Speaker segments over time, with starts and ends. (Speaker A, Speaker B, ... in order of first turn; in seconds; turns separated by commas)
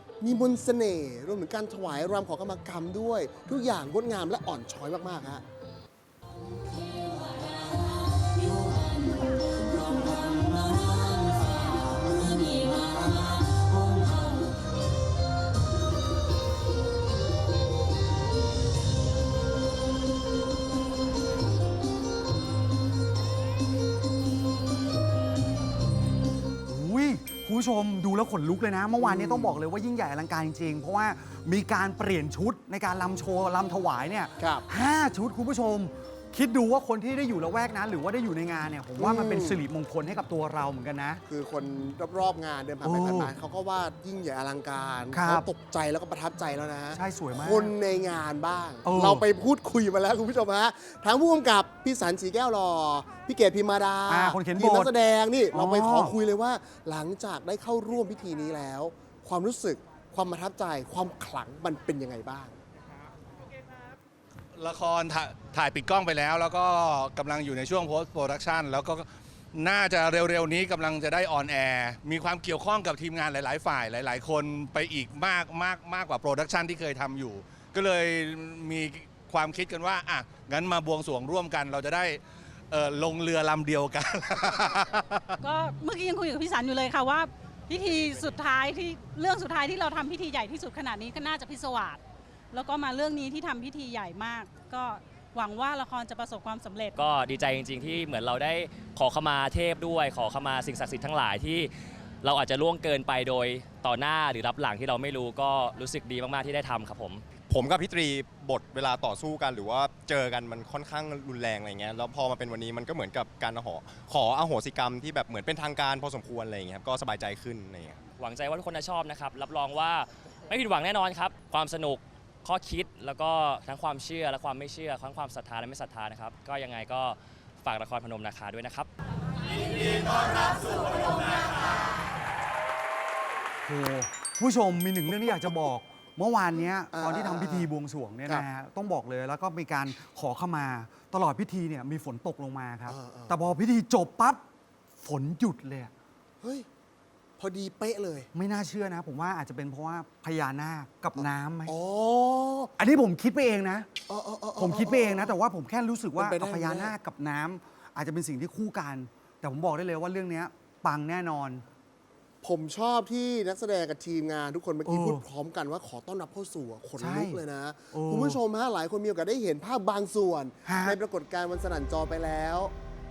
Speaker A: 0.2-5.4, Speaker A: 10.2-10.5, Speaker B: 26.7-41.2, Speaker A: 29.0-29.6, Speaker A: 34.4-34.6, Speaker A: 39.0-39.6, Speaker A: 41.2-62.6, Speaker B: 42.8-43.3, Speaker B: 45.1-45.5, Speaker B: 46.9-47.7, Speaker B: 48.8-49.2, Speaker B: 54.1-54.9, Speaker B: 55.5-56.1, Speaker C: 64.5-85.4, Speaker D: 85.4-92.0, Speaker D: 92.5-97.0, Speaker E: 96.9-101.7, Speaker E: 102.2-107.2, Speaker F: 107.4-118.0, Speaker E: 118.2-128.9, Speaker B: 133.6-144.4, Speaker A: 136.9-137.7, Speaker A: 142.9-143.4, Speaker B: 145.0-145.9, Speaker A: 146.4-146.7, Speaker A: 147.4-148.3, Speaker B: 148.3-151.7, Speaker A: 151.1-152.7, Speaker B: 152.8-153.9, Speaker A: 154.1-155.3, Speaker B: 154.6-161.6, Speaker A: 156.2-156.9, Speaker A: 162.4-172.7, Speaker B: 164.8-165.2, Speaker B: 167.0-167.4, Speaker B: 167.9-168.4, Speaker B: 170.6-171.0